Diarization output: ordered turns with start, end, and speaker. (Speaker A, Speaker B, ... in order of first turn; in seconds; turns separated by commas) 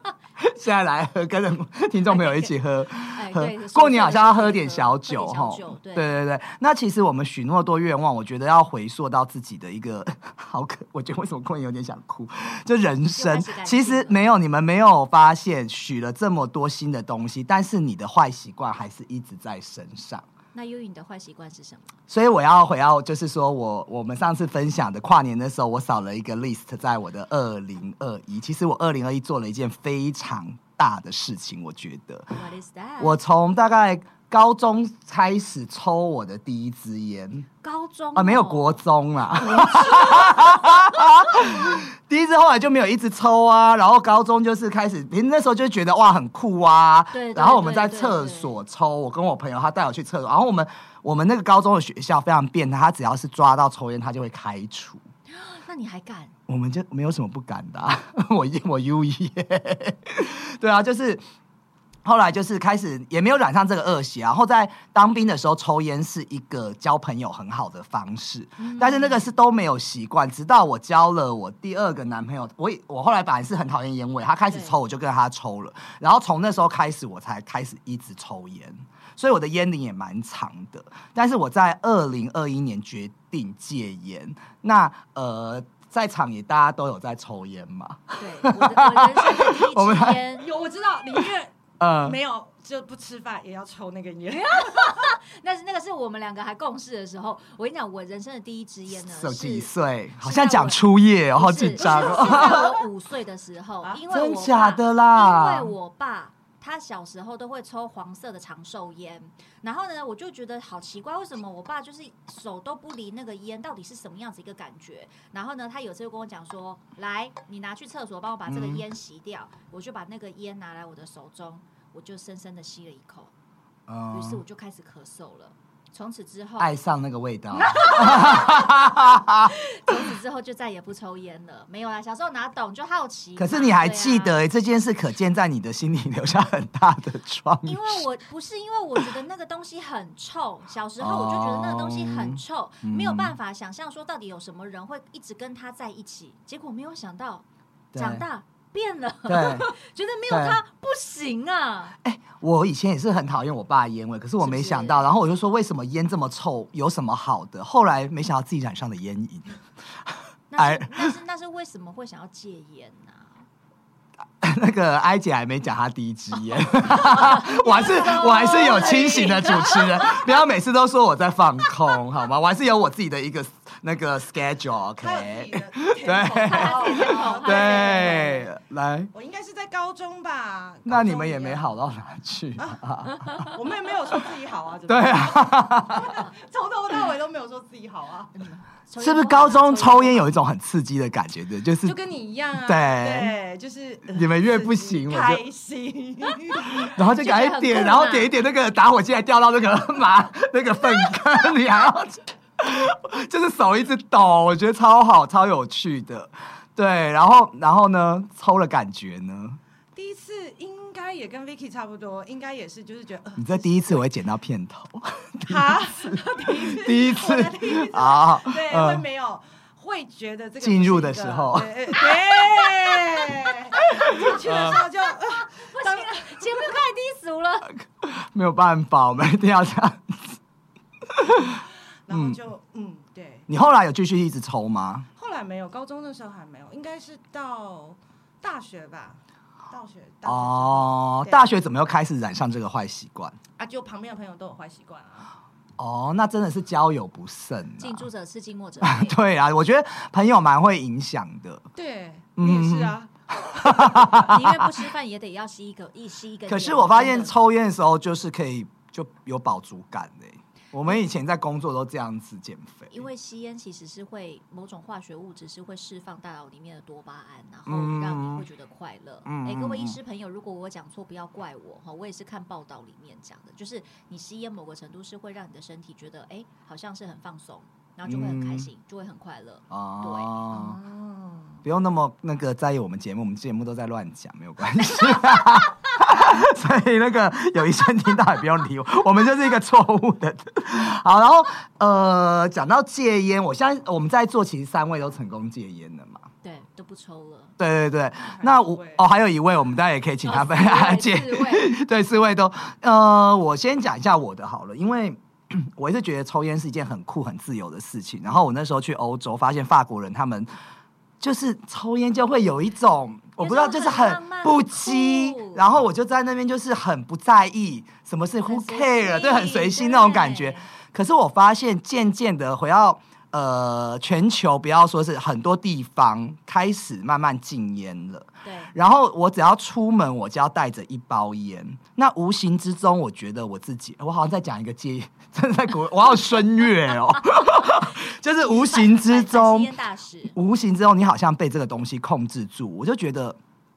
Speaker A: 0.4-20.2, Speaker B: 2.1-6.1, Speaker B: 13.1-14.2, Speaker B: 20.5-21.9, Speaker A: 22.1-32.3, Speaker B: 32.3-33.2, Speaker A: 33.0-37.5, Speaker B: 37.6-38.8, Speaker A: 38.1-55.0, Speaker B: 39.4-41.3, Speaker B: 47.1-48.5, Speaker B: 55.3-56.3, Speaker A: 56.5-61.2, Speaker A: 62.0-90.2, Speaker B: 68.6-69.3, Speaker B: 74.5-74.8, Speaker B: 88.2-90.5, Speaker C: 90.3-95.1, Speaker A: 91.8-92.2, Speaker B: 94.3-100.8, Speaker A: 98.9-102.7, Speaker B: 101.3-123.3, Speaker C: 101.8-102.8, Speaker A: 104.1-105.7, Speaker A: 118.5-118.8, Speaker A: 123.9-124.4, Speaker B: 124.1-126.7, Speaker A: 126.6-130.0, Speaker B: 127.5-134.4, Speaker A: 133.4-138.0, Speaker B: 137.6-147.4, Speaker A: 141.0-143.3, Speaker A: 147.9-148.2, Speaker B: 147.9-151.9, Speaker A: 149.3-149.7, Speaker A: 150.3-150.6, Speaker A: 152.0-161.1, Speaker B: 154.4-155.1, Speaker B: 160.5-163.4, Speaker A: 164.4-179.1, Speaker B: 166.8-170.3, Speaker C: 168.6-169.6, Speaker C: 175.0-178.5, Speaker B: 176.4-178.3, Speaker C: 179.1-181.8, Speaker A: 180.8-183.5, Speaker C: 182.6-188.3, Speaker A: 184.9-186.2, Speaker B: 188.3-190.2, Speaker A: 189.0-192.0, Speaker C: 191.8-196.9, Speaker A: 192.6-193.3, Speaker A: 194.1-195.4, Speaker A: 196.9-209.6, Speaker B: 197.1-198.3, Speaker C: 209.9-214.0, Speaker A: 213.4-219.0, Speaker C: 215.4-226.6, Speaker A: 220.6-221.7, Speaker B: 222.0-223.0, Speaker B: 223.7-224.4, Speaker A: 223.9-224.8, Speaker B: 225.2-227.7, Speaker A: 227.8-230.4, Speaker A: 231.1-232.4, Speaker C: 232.1-233.5, Speaker A: 233.5-235.1, Speaker C: 235.2-241.5, Speaker A: 240.2-243.4, Speaker C: 243.6-245.3, Speaker A: 245.8-248.1, Speaker B: 247.8-249.2, Speaker A: 248.8-251.7, Speaker C: 251.7-254.2, Speaker A: 252.4-253.0, Speaker A: 253.5-254.7, Speaker B: 254.1-257.4, Speaker A: 256.5-263.0, Speaker B: 262.9-280.4, Speaker A: 267.7-268.4, Speaker A: 269.2-270.0, Speaker A: 278.1-278.7, Speaker A: 279.7-280.8, Speaker C: 280.5-281.6, Speaker A: 281.6-296.2, Speaker B: 296.4-297.5, Speaker A: 297.6-310.5, Speaker C: 298.2-299.1, Speaker B: 300.2-301.7, Speaker A: 311.2-339.7, Speaker B: 313.4-315.6, Speaker B: 318.4-320.7, Speaker B: 328.4-328.7, Speaker B: 337.5-340.4, Speaker A: 340.3-343.4